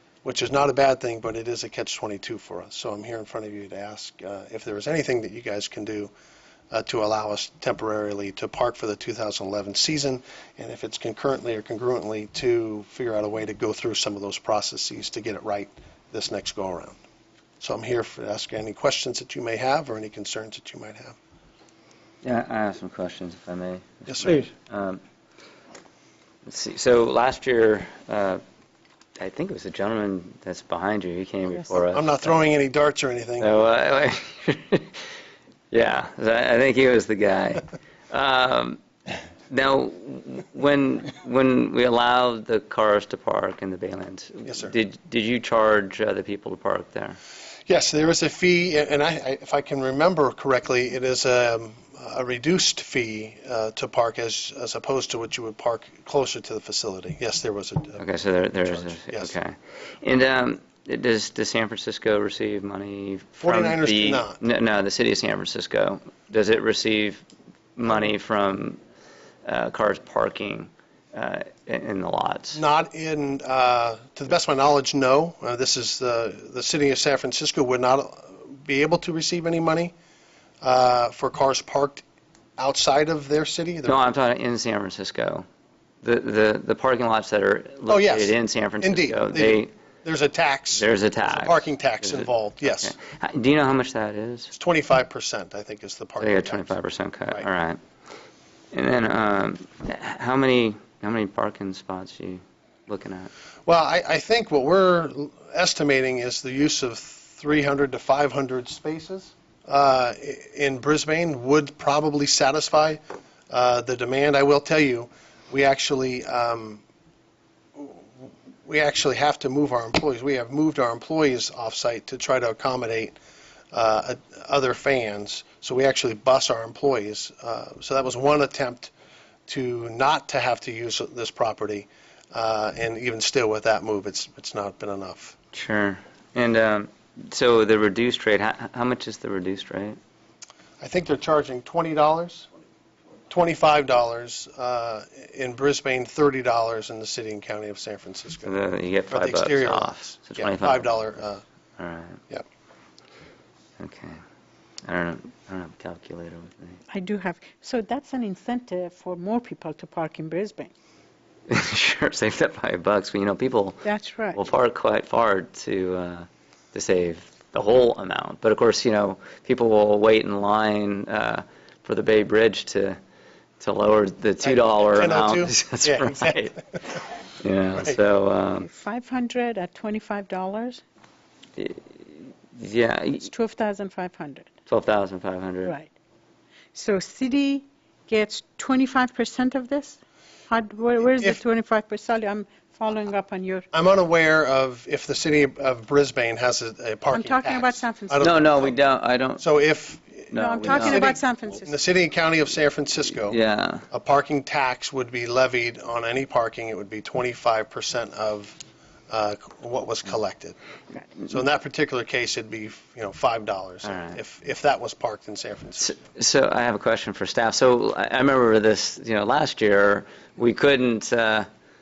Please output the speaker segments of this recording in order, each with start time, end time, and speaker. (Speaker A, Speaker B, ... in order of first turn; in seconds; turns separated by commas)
Speaker A: 0.2-6.1, Speaker A: 6.7-17.0, Speaker A: 17.6-21.2, Speaker B: 22.2-25.0, Speaker A: 24.1-24.5, Speaker B: 26.4-28.4, Speaker B: 29.2-32.4, Speaker A: 31.9-33.5, Speaker B: 33.4-35.0, Speaker B: 35.7-38.8, Speaker B: 39.5-47.2, Speaker A: 44.5-44.7, Speaker A: 47.7-58.0, Speaker B: 58.0-67.2, Speaker A: 58.6-59.3, Speaker A: 63.4-64.4, Speaker B: 67.8-68.8, Speaker B: 69.4-72.6, Speaker A: 72.5-79.9, Speaker A: 80.6-82.0, Speaker A: 82.6-84.0, Speaker B: 83.8-85.5, Speaker B: 86.0-89.7, Speaker A: 87.9-92.9, Speaker B: 90.7-94.5, Speaker A: 94.5-96.8, Speaker B: 96.2-97.8, Speaker B: 98.7-103.3, Speaker A: 103.7-116.8, Speaker A: 117.8-118.0, Speaker A: 118.6-123.2, Speaker A: 123.7-128.9, Speaker A: 129.5-135.3, Speaker B: 135.5-140.0, Speaker A: 140.8-142.5, Speaker A: 143.3-148.5, Speaker B: 148.4-150.9, Speaker A: 149.1-151.4, Speaker B: 151.8-152.2, Speaker B: 153.8-154.2, Speaker B: 154.8-156.8, Speaker C: 156.9-160.7, Speaker B: 161.5-173.0, Speaker C: 163.8-164.4, Speaker B: 173.6-176.6, Speaker A: 174.4-176.6, Speaker B: 177.4-178.7, Speaker C: 178.6-180.8, Speaker B: 181.6-183.3, Speaker C: 183.2-184.5, Speaker B: 184.7-185.7, Speaker C: 186.7-190.0, Speaker C: 190.5-193.7, Speaker A: 193.7-198.7, Speaker C: 197.1-198.6, Speaker B: 198.2-201.2, Speaker A: 199.4-203.4, Speaker C: 200.3-201.7, Speaker B: 203.3-203.8, Speaker A: 203.9-208.6, Speaker A: 209.1-210.6, Speaker A: 211.3-215.9, Speaker B: 213.8-214.2, Speaker B: 215.8-221.5